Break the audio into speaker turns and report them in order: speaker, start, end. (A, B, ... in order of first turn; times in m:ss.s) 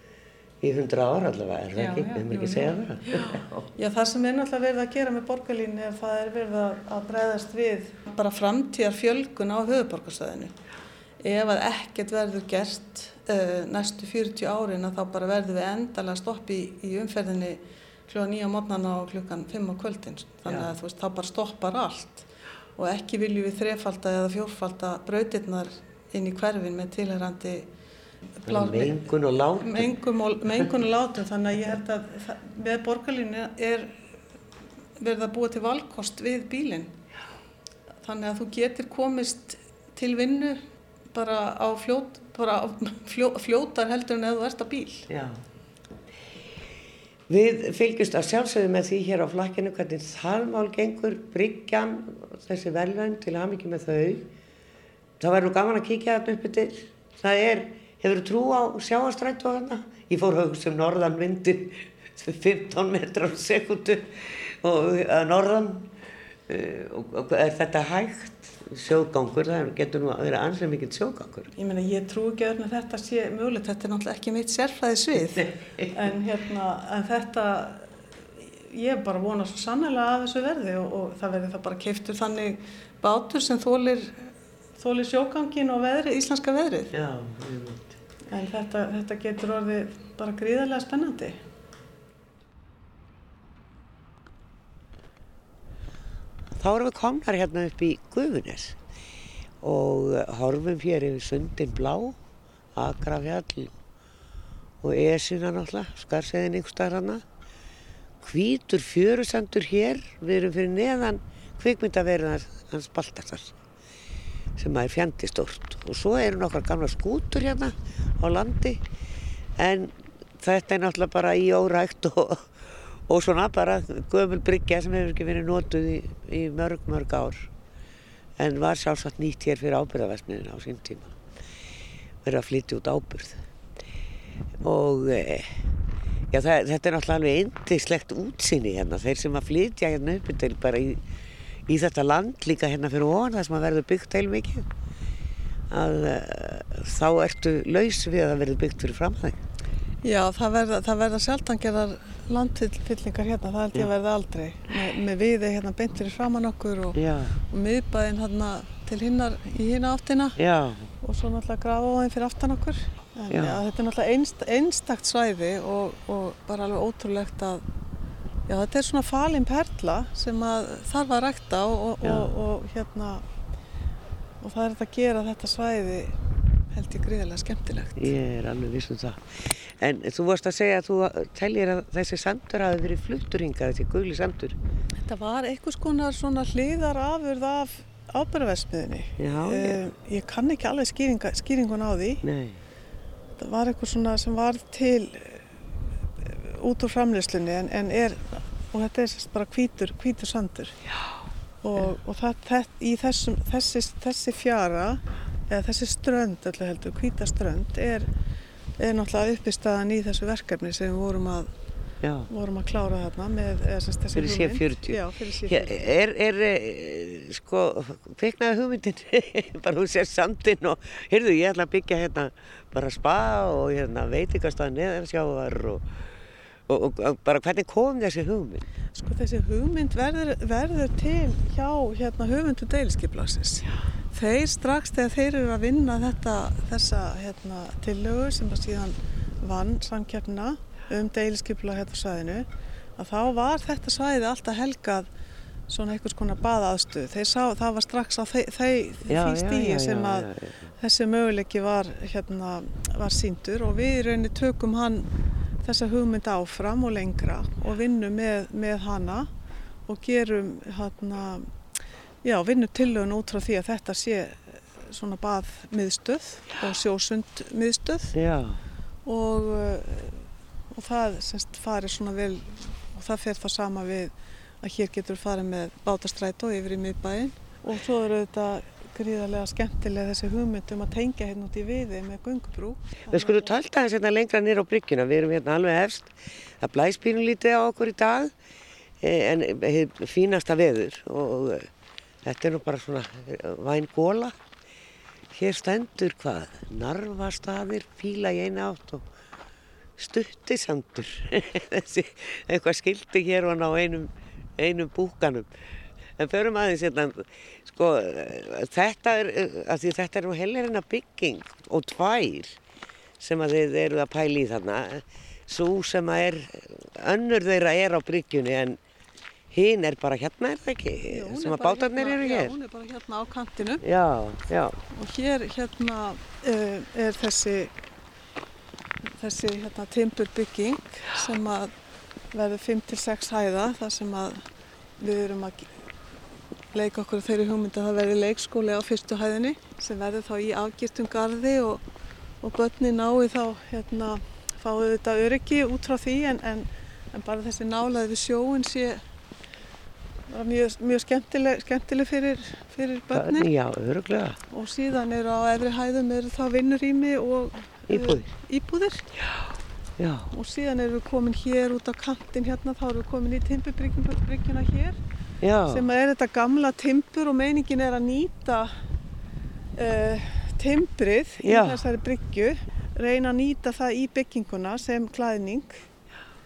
0:00.6-0:03.7 A
0:01.7-0:10.5 B
0:11.2-0:27.7 B
0:28.4-0:29.0 B
0:28.5-0:29.9 A
0:29.6-0:34.0 B
0:35.0-0:36.9 B
0:38.0-0:40.6 B
0:41.1-0:45.1 B
0:45.1-0:45.4 A
0:47.3-0:54.3 A
0:55.2-1:05.9 A
1:06.5-1:11.5 A
1:11.5-1:17.9 B
1:15.2-1:15.9 A
1:18.6-1:26.9 B
1:26.9-1:27.9 A
1:28.3-1:31.4 B
1:36.6-1:38.8 A
1:39.6-1:42.2 A
1:42.7-1:43.8 A
1:44.8-1:47.2 A
1:48.2-1:53.6 A
1:54.6-1:58.8 A
1:59.6-2:07.5 A
2:08.4-2:11.1 A
2:12.2-2:13.4 A
2:14.6-2:15.5 A
2:16.3-2:21.0 A
2:21.7-2:24.7 A
2:25.7-2:29.4 A
2:30.0-2:40.4 B
2:36.9-2:37.4 A
2:40.4-2:40.9 A
2:41.0-2:47.6 B
2:43.3-2:43.6 A
2:48.5-2:53.2 B
2:52.0-2:52.3 A
2:54.4-2:56.2 B
2:56.7-2:58.1 B
2:58.0-3:04.6 A
3:05.0-3:12.2 B
3:09.2-3:09.9 A
3:12.2-3:12.6 A
3:13.4-3:15.4 B
3:16.2-3:20.8 B
3:21.6-3:28.1 B
3:28.8-3:31.5 B
3:32.0-3:32.3 A
3:32.3-3:35.8 B
3:34.1-3:45.8 A
3:46.7-3:48.6 A
3:48.9-4:05.1 B
4:05.7-4:15.1 B
4:09.1-4:10.6 A
4:15.6-4:19.3 B
4:19.9-4:21.5 B
4:22.2-4:28.2 B
4:28.1-4:28.6 A
4:29.0-4:43.5 B
4:43.1-4:48.3 A
4:49.0-4:51.7 A
4:52.2-4:54.4 A
4:55.3-4:59.0 A
5:00.0-5:05.5 A
5:06.2-5:12.6 A
5:13.2-5:18.8 A
5:19.5-5:22.5 A
5:21.1-5:23.8 B
5:23.8-5:24.8 A
5:24.9-5:27.7 B
5:29.2-5:31.7 B
5:32.3-5:34.5 B
5:35.0-5:35.8 B
5:36.7-5:41.8 B
5:42.4-5:49.0 B
5:50.3-5:53.5 B
5:53.1-5:54.4 A
5:54.5-5:59.1 B
5:57.9-5:58.3 A
6:00.0-6:00.3 A
6:00.3-6:05.0 B
6:05.4-6:05.8 A
6:05.7-6:08.7 B
6:09.8-6:15.8 B
6:11.4-6:11.8 A